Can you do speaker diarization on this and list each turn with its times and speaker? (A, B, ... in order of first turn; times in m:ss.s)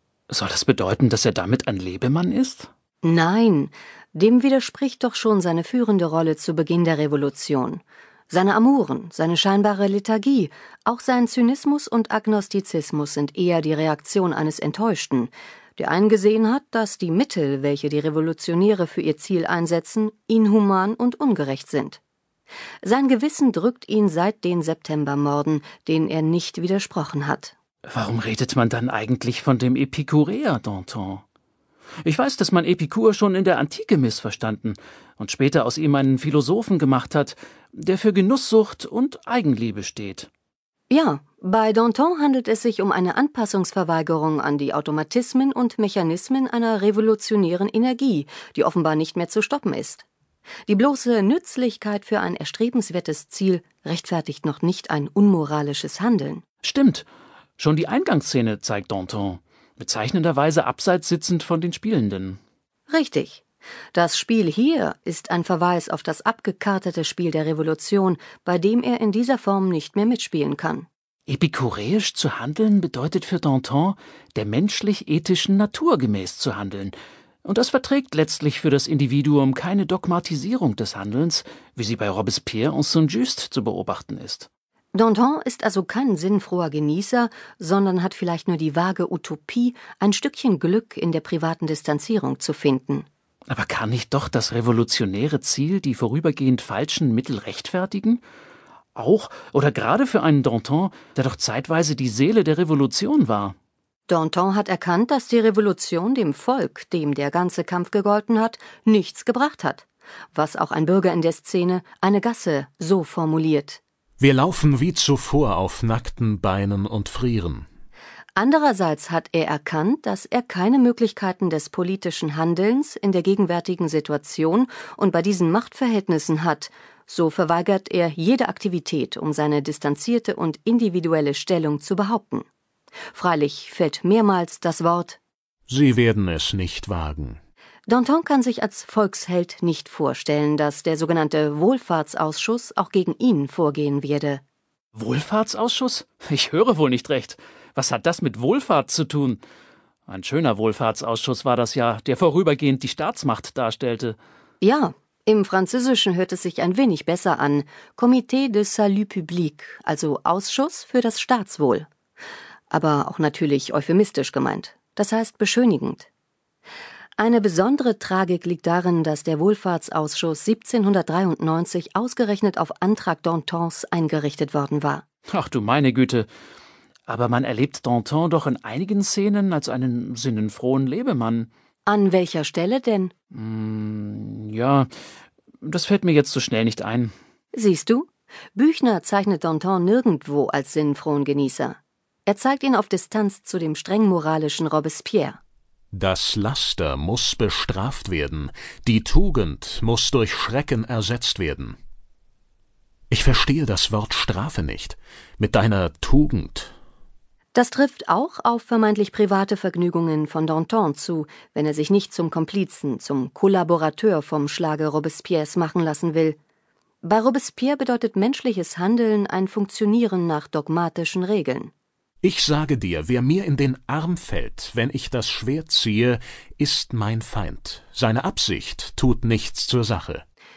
0:00.3-0:02.7 A
0:03.0-0:22.0 B
0:22.8-0:27.5 B
0:27.9-0:31.2 A
0:32.0-0:40.3 A
0:40.9-0:50.0 B
0:50.7-0:56.4 B
0:56.6-0:57.0 A
0:57.6-1:02.4 A
1:02.9-1:03.4 B
1:03.9-1:10.9 B
1:11.3-1:24.5 A
1:24.9-1:33.0 B
1:33.5-1:38.2 A
1:38.9-1:43.5 A
1:44.1-1:53.8 B
1:54.2-1:57.6 C
1:58.4-2:12.4 B
2:13.1-2:15.2 B
2:15.7-2:17.4 C
2:17.9-2:24.4 B
2:24.9-2:29.4 A
2:30.1-2:34.2 A
2:34.6-2:41.9 B
2:42.7-2:46.1 B
2:47.2-2:55.0 B
2:55.3-2:56.3 A
2:57.1-3:01.5 A
3:01.9-3:03.1 B
3:03.3-3:04.9 A
3:05.6-3:07.1 A
3:07.5-3:15.4 B
3:15.9-3:21.8 C
3:23.1-3:26.7 C
3:27.5-3:36.4 B
3:37.0-3:41.7 B
3:42.2-3:50.2 C